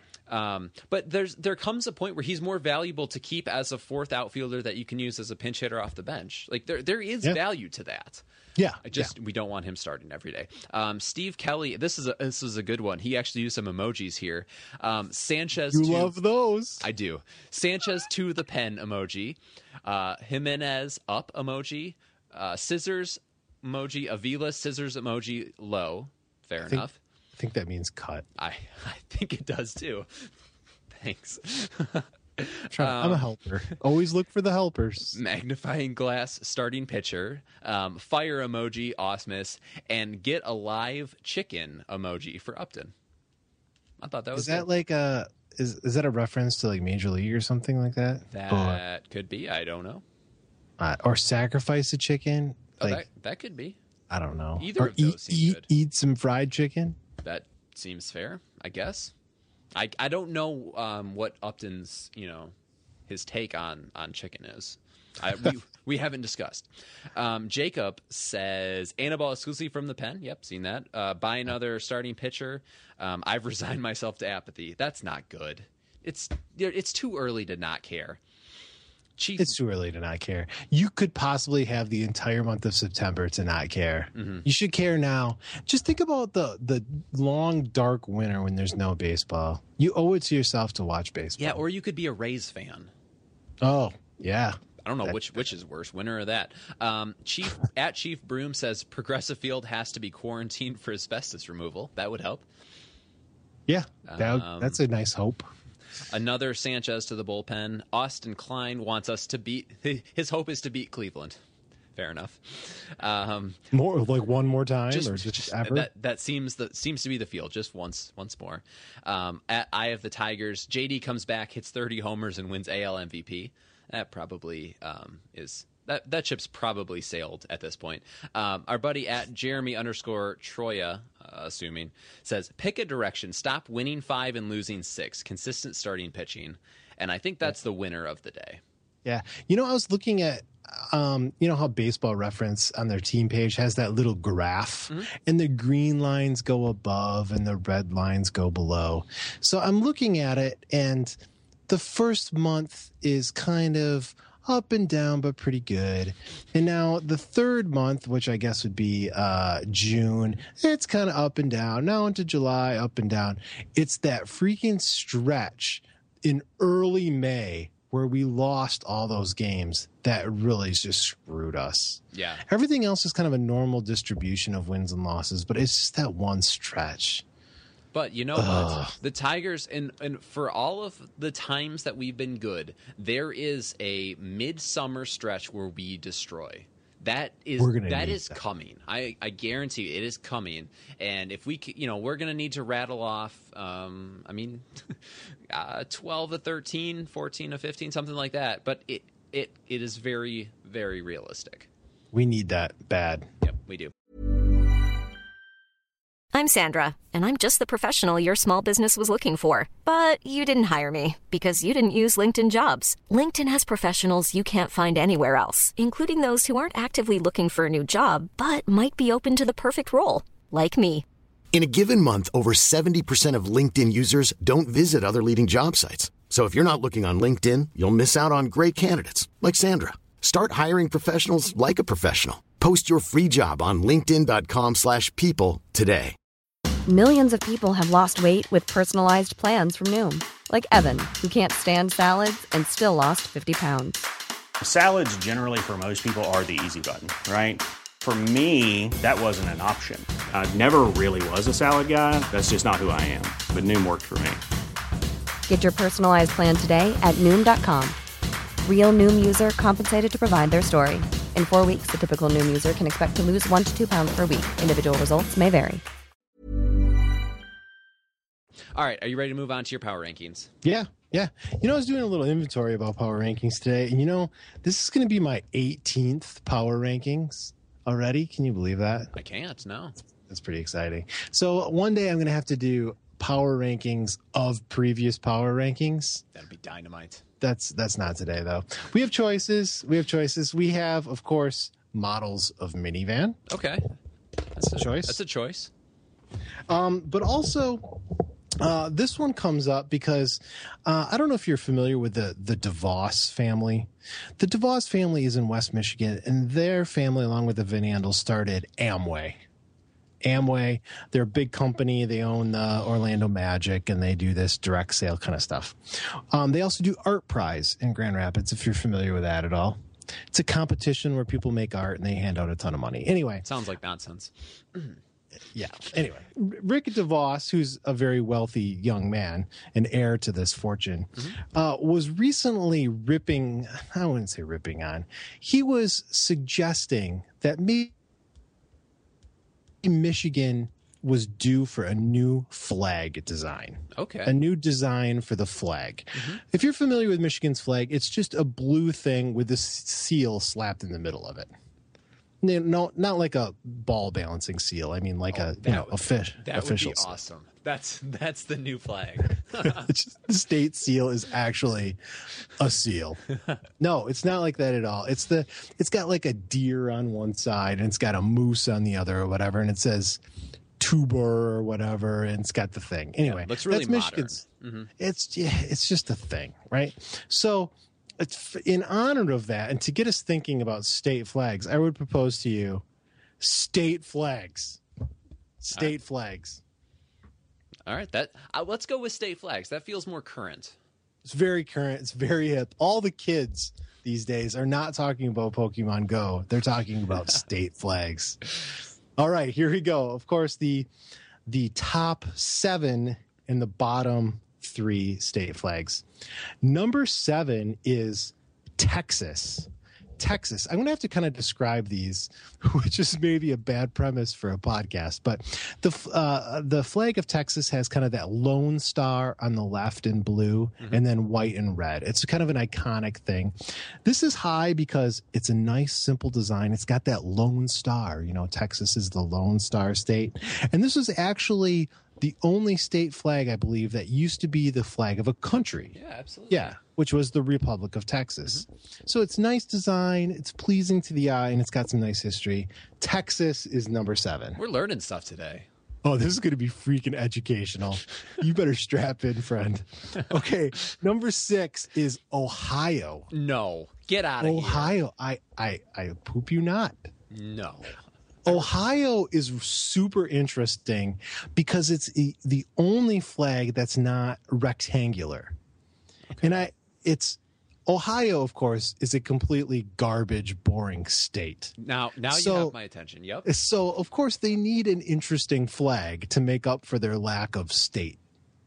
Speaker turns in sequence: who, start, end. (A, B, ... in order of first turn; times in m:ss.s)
0:00.3-0:08.2 A
0:08.6-0:09.1 B
0:08.8-0:16.1 A
0:15.7-0:16.8 B
0:16.8-0:27.0 A
0:26.6-0:28.2 B
0:28.4-0:30.3 A
0:30.9-0:33.2 A
0:32.7-0:35.2 B
0:35.1-0:42.9 A
0:44.0-0:44.7 A
0:44.3-0:48.8 B
0:48.3-0:50.0 A
0:50.8-0:53.0 B
0:52.8-0:53.8 A
0:54.1-0:57.0 B
0:54.6-0:55.7 A
0:57.2-0:59.1 A
0:59.7-1:02.5 A
1:03.1-1:18.2 A
1:19.2-1:19.6 A
1:19.4-1:31.6 B
1:24.1-1:24.4 A
1:31.4-1:32.9 A
1:33.6-1:35.2 B
1:34.8-1:42.4 A
1:43.7-1:45.5 B
1:44.0-1:44.8 A
1:46.1-1:51.4 A
1:52.0-1:53.6 A
1:53.7-1:55.9 B
1:54.9-2:18.6 A
2:19.0-2:57.2 B
2:52.1-2:52.4 A
2:57.9-3:21.7 A
2:58.3-2:58.9 B
3:07.6-3:08.4 B
3:22.1-3:23.3 B
3:23.4-3:23.9 A
3:26.3-3:41.0 C
3:41.5-3:56.2 D
3:56.8-4:04.0 E
4:04.6-4:14.4 F
4:15.5-4:18.0 E
4:18.6-4:25.8 E
4:28.7-4:30.5 A
4:30.6-4:39.1 B
4:39.1-4:40.0 A
4:40.2-4:46.2 B
4:46.3-4:47.2 A
4:47.4-4:53.4 B
4:53.5-4:53.9 A
4:54.6-4:55.7 A
4:54.6-4:55.2 B
4:56.7-5:09.4 B
5:10.2-5:19.8 B
5:20.3-5:23.4 B
5:23.4-5:25.0 A
5:25.5-5:37.9 B
5:39.8-5:51.5 B
5:43.9-5:44.4 A
5:46.1-5:46.4 A
5:52.4-5:57.2 B
5:55.3-5:59.9 A
5:59.6-6:02.0 B
6:02.6-6:03.2 B
6:03.8-6:10.2 B
6:10.8-6:14.4 B
6:13.2-6:14.9 A
6:15.0-6:22.8 B
6:23.4-6:24.8 B
6:25.6-6:26.6 B
6:27.8-6:30.8 A
6:31.2-6:38.6 B
6:39.2-6:40.9 B
6:41.4-6:46.0 B
6:46.6-7:16.0 B
7:15.9-7:16.8 A
7:16.5-7:24.6 B
7:24.6-7:25.7 A
7:26.0-7:33.3 B
7:33.3-7:35.0 A
7:34.4-7:37.1 B
7:37.3-7:38.6 A
7:38.4-7:45.6 B
7:46.3-7:46.6 A
7:46.4-7:51.7 B
7:51.8-7:53.5 A
7:52.3-7:52.7 B
7:53.4-7:58.2 B